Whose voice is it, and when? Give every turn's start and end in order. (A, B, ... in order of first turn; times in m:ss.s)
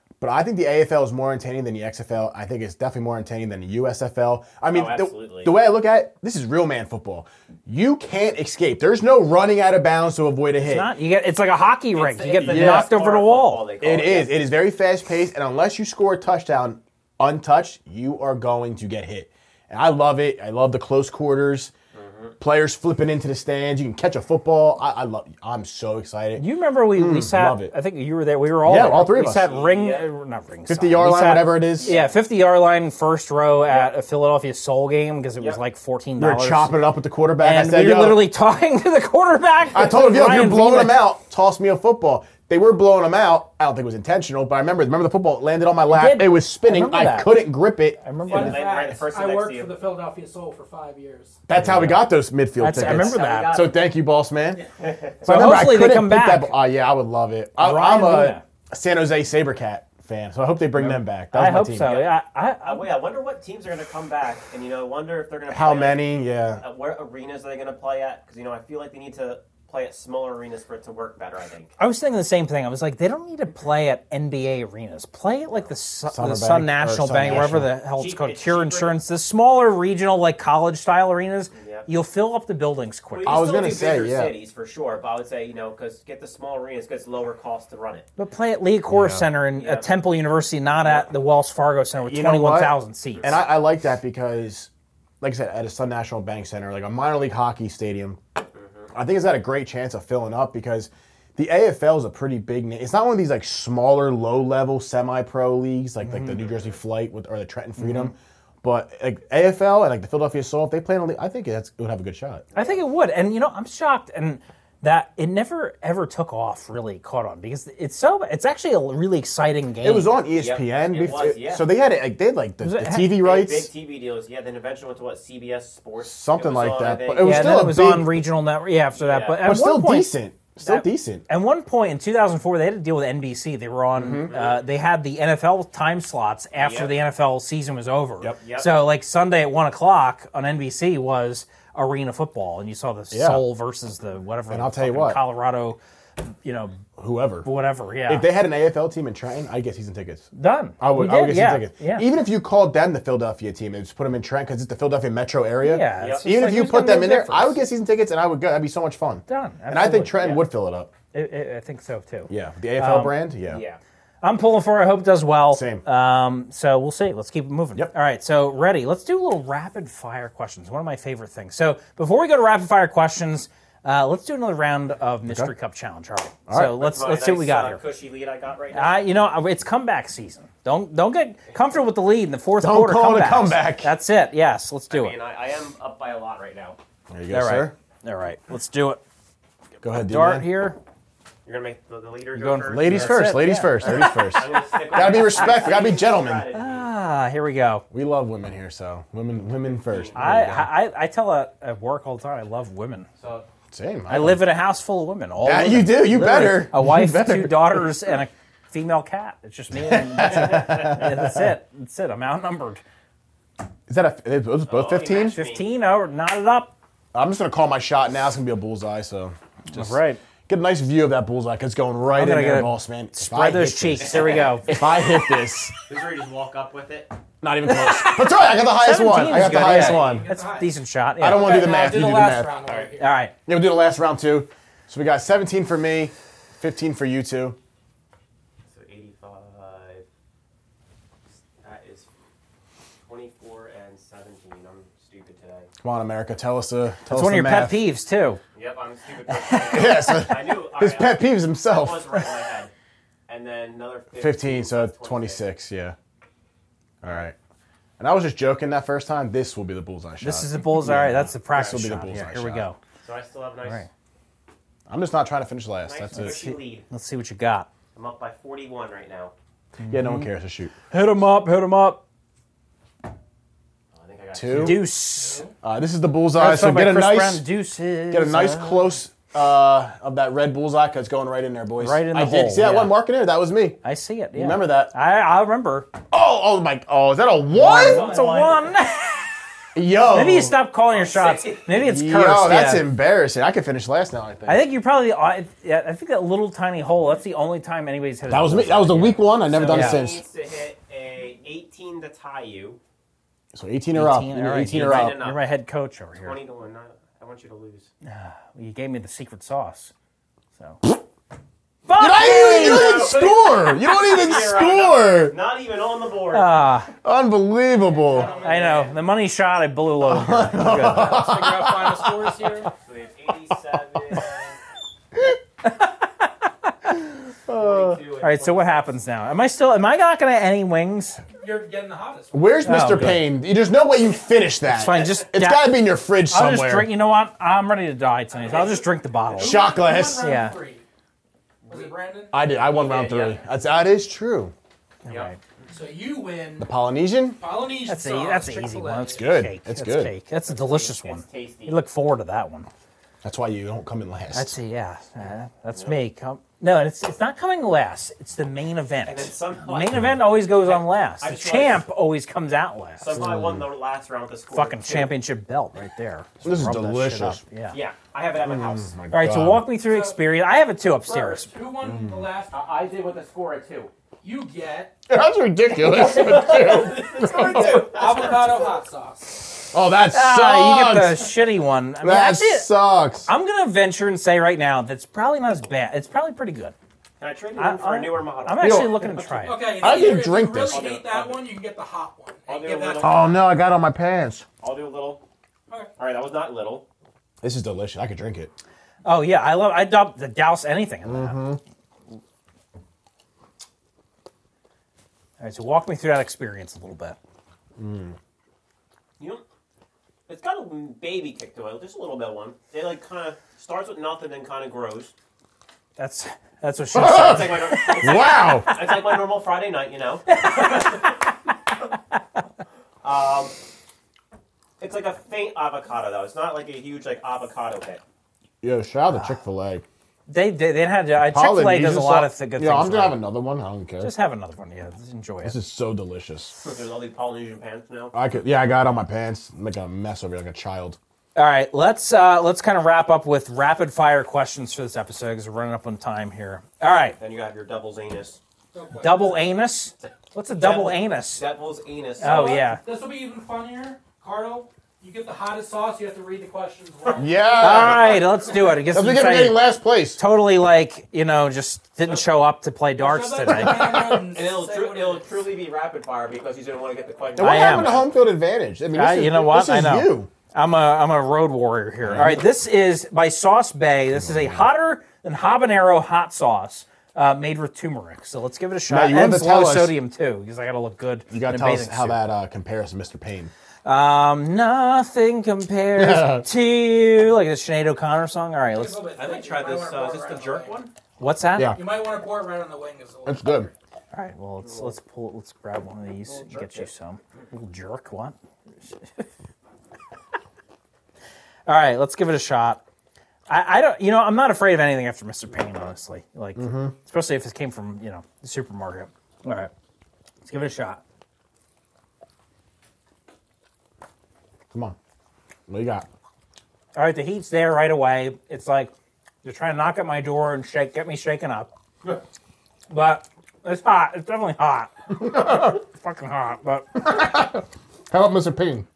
0:00.2-0:10.9 A
0:04.7-0:05.5 B
0:10.6-0:13.7 C
0:11.9-0:14.4 B
0:12.4-0:12.9 A
0:13.8-0:21.7 A
0:21.9-0:22.4 B
0:22.4-0:27.7 A
0:26.4-0:36.8 C
0:28.6-0:29.5 A
0:29.2-0:30.1 B
0:30.7-0:31.9 A
0:31.8-0:32.1 B
0:36.2-0:38.3 A
0:37.4-0:41.0 C
0:39.7-0:48.0 A
0:45.9-0:48.6 C
0:48.3-0:49.8 B
0:48.3-0:51.4 D
0:51.5-0:54.6 A
0:51.6-0:53.6 C
0:52.7-0:53.8 B
0:54.8-0:55.3 B
0:55.2-1:01.9 A
0:55.2-0:56.6 C
0:57.6-0:58.4 C
1:00.8-1:02.9 C
1:01.8-1:11.7 B
1:05.5-1:06.6 A
1:11.8-1:23.5 C
1:16.1-1:17.7 A
1:17.4-1:19.0 B
1:21.5-1:21.9 B
1:23.1-1:28.1 B
1:23.3-1:24.4 A
1:28.2-1:33.4 C
1:28.9-1:29.3 A
1:29.6-1:30.0 B
1:32.0-1:34.7 A
1:35.2-1:38.2 A
1:38.6-1:38.9 B
1:38.9-1:52.5 A
1:46.0-1:46.4 C
1:46.4-1:46.7 B
1:47.8-1:48.1 C
1:52.5-1:52.8 B
1:52.6-2:00.1 C
1:59.8-2:03.7 A
2:00.3-2:01.7 B
2:02.6-2:03.2 C
2:03.2-2:07.6 B
2:06.0-2:08.1 A
2:07.2-2:25.8 C
2:09.0-2:09.4 B
2:09.4-2:11.2 A
2:14.0-2:14.3 A
2:14.3-2:14.6 B
2:16.6-2:17.0 B
2:18.4-2:18.7 B
2:23.1-2:23.4 A
2:24.5-2:25.2 A
2:26.4-2:26.8 C
2:27.0-2:27.5 A
2:27.4-2:28.3 C
2:28.1-2:30.3 A
2:30.3-2:32.1 C
2:30.8-2:40.9 A
2:35.6-2:37.6 C
2:36.0-2:36.2 B
2:39.3-2:40.4 C
2:41.1-2:43.2 C
2:42.3-2:43.6 A
2:43.5-2:43.8 B
2:44.2-2:57.8 C
2:45.5-2:45.8 A
2:55.3-2:55.5 A
2:56.5-2:56.8 A
2:56.8-2:59.0 B
2:58.7-3:05.1 C
3:02.6-3:03.9 A
3:04.9-3:06.8 B
3:07.1-3:07.7 A
3:07.3-3:09.0 C
3:09.8-3:10.5 A
3:10.0-3:10.8 C
3:11.5-3:16.9 B
3:12.4-3:14.5 C
3:12.7-3:16.5 A
3:15.0-3:15.3 C
3:16.5-3:17.8 C
3:17.9-3:20.7 A
3:19.7-3:20.3 B
3:20.2-3:23.1 C
3:23.2-3:23.5 B
3:23.7-3:24.4 A
3:24.1-3:32.8 C
3:25.4-3:27.9 A
3:29.7-3:31.5 A
3:33.9-3:35.4 A
3:34.7-3:35.6 B
3:35.3-3:36.8 C
3:37.1-3:45.8 A
3:39.7-3:40.2 C
3:42.1-3:44.7 C
3:44.0-3:44.8 B
3:45.8-3:47.1 B
3:47.4-3:50.3 A
3:47.7-3:51.7 C
3:49.3-3:50.7 D
3:51.2-3:52.5 A
3:51.3-3:53.1 D
3:52.7-3:52.9 B
3:53.0-3:53.3 C
3:53.5-3:57.6 A
3:58.7-4:00.0 B
4:01.6-4:02.1 B
4:03.1-4:05.7 B
4:05.8-4:07.8 A
4:07.1-4:08.4 C
4:08.6-4:12.7 B
4:09.3-4:10.3 C
4:09.7-4:12.2 A
4:13.3-4:15.4 B
4:14.2-4:16.0 A
4:17.0-4:17.4 A
4:18.0-4:22.6 A
4:20.2-4:22.8 C
4:23.0-4:23.8 B
4:24.9-4:26.4 A
4:25.8-4:26.9 B
4:26.2-4:27.7 C
4:28.0-4:29.3 B
4:29.8-4:30.3 C
4:29.8-4:30.7 A
4:30.9-4:32.0 C
4:33.9-4:34.9 B
4:34.3-4:34.9 A
4:34.5-4:35.4 C
4:35.2-4:35.5 D
4:35.6-4:37.5 A
4:36.4-4:38.9 C
4:38.1-4:43.8 A
4:41.8-4:43.0 C
4:43.8-4:45.9 C
4:44.4-4:44.9 A
4:46.1-4:48.1 A
4:47.5-4:49.3 C
4:47.6-4:48.7 B
4:49.8-4:50.6 A
4:50.1-4:52.9 C
4:50.9-4:51.8 B
4:51.8-4:54.7 A
4:54.5-5:00.1 C
4:58.3-5:00.2 A
4:59.4-5:02.8 B
5:03.5-5:05.2 A
5:03.9-5:06.4 C
5:04.6-5:05.5 B
5:06.2-5:07.9 B
5:08.0-5:09.9 C
5:11.8-5:13.1 C
5:12.0-5:15.4 A
5:12.2-5:16.6 B
5:16.3-5:16.9 C
5:17.0-5:18.3 A
5:17.9-5:18.9 D
5:18.1-5:19.0 B
5:18.4-5:21.3 C
5:20.0-5:22.7 A
5:20.6-5:22.7 D
5:22.7-5:24.6 B
5:25.6-5:27.0 C
5:27.5-5:28.0 A
5:27.5-5:28.9 B
5:28.2-5:31.2 C
5:31.4-5:32.4 D
5:32.3-5:36.9 A
5:32.6-5:33.2 C
5:34.6-5:35.8 C
5:36.3-5:39.7 C
5:38.4-5:38.8 B
5:38.4-5:38.8 D
5:39.3-5:40.8 D
5:39.4-5:40.3 A
5:40.2-5:40.6 C
5:41.6-5:41.9 B
5:41.7-5:42.4 D
5:42.3-5:44.5 A
5:42.7-5:43.4 B
5:45.0-5:45.3 B
5:45.0-5:45.4 C
5:45.7-5:46.7 D
5:46.6-5:47.4 A
5:47.4-5:49.3 D
5:47.9-5:52.7 C
5:49.2-5:50.1 A
5:50.4-5:51.8 B
5:53.2-5:54.5 A
5:54.3-6:03.2 C
5:59.1-6:01.8 B
6:03.0-6:05.2 B
6:03.2-6:03.7 A
6:04.5-6:07.8 C
6:06.4-6:07.4 A
6:07.7-6:09.0 B
6:08.4-6:09.7 A
6:09.1-6:11.5 C
6:09.8-6:10.2 D
6:11.1-6:12.6 D
6:11.8-6:12.3 A
6:12.5-6:13.9 B
6:14.2-6:15.0 D
6:15.1-6:17.9 A
6:15.8-6:18.8 B
6:17.4-6:19.4 D
6:19.7-6:21.4 A
6:20.1-6:22.7 C
6:22.0-6:23.3 A
6:23.3-6:26.7 C
6:27.2-6:29.2 B
6:27.6-6:29.8 C
6:28.6-6:29.0 A
6:29.4-6:33.2 D
6:29.8-6:30.8 A
6:29.8-6:31.5 B
6:32.5-6:33.4 B
6:33.0-6:34.5 A
6:34.6-6:35.2 B
6:36.0-6:36.8 B
6:37.4-6:38.5 A
6:39.0-6:41.4 C
6:41.0-6:41.6 A
6:45.4-6:47.2 C
6:47.8-6:48.2 A
6:49.2-6:49.4 B
6:50.3-6:55.1 B
6:56.0-6:58.8 C
6:56.9-6:58.7 A
6:57.1-7:01.3 B
7:00.3-7:01.1 C
7:03.0-7:03.5 B
7:04.8-7:08.0 B
7:08.6-7:09.8 A
7:10.3-7:13.2 C
7:11.3-7:14.1 A
7:14.0-7:15.6 C
7:15.4-7:16.5 A
7:16.6-7:18.2 B
7:18.1-7:21.0 A
7:21.4-7:27.2 C
7:27.2-7:28.4 B
7:28.7-7:29.4 D
7:29.0-7:31.4 C
7:30.6-7:32.6 B
7:32.2-7:38.1 D
7:32.2-7:32.8 C
7:37.2-7:38.3 A
7:37.6-7:39.6 C
7:38.9-7:40.2 A
7:40.2-7:43.9 C
7:43.0-7:45.2 D
7:43.5-7:44.3 A
7:44.3-7:48.1 B
7:47.4-7:50.3 A
7:47.4-7:48.0 C
7:48.9-8:02.2 C
7:52.0-7:52.5 A
7:54.2-7:54.7 A
7:58.9-8:00.0 A
8:01.3-8:03.5 A
8:03.8-8:09.0 C
8:06.0-8:06.5 A
8:08.7-8:10.8 D
8:09.2-8:10.9 B
8:11.2-8:11.8 C
8:11.7-8:13.7 D
8:13.3-8:13.7 A
8:14.1-8:19.3 C
8:14.6-8:14.9 B
8:16.3-8:16.9 B
8:21.7-8:22.8 C
8:23.5-8:29.7 C
8:26.6-8:26.9 A
8:30.4-8:31.0 C
8:34.7-8:35.0 A
8:35.7-8:36.1 A
8:36.9-8:38.9 C
8:39.4-8:41.7 C
8:42.9-8:47.1 C
8:45.2-8:45.8 A
8:47.0-8:48.9 A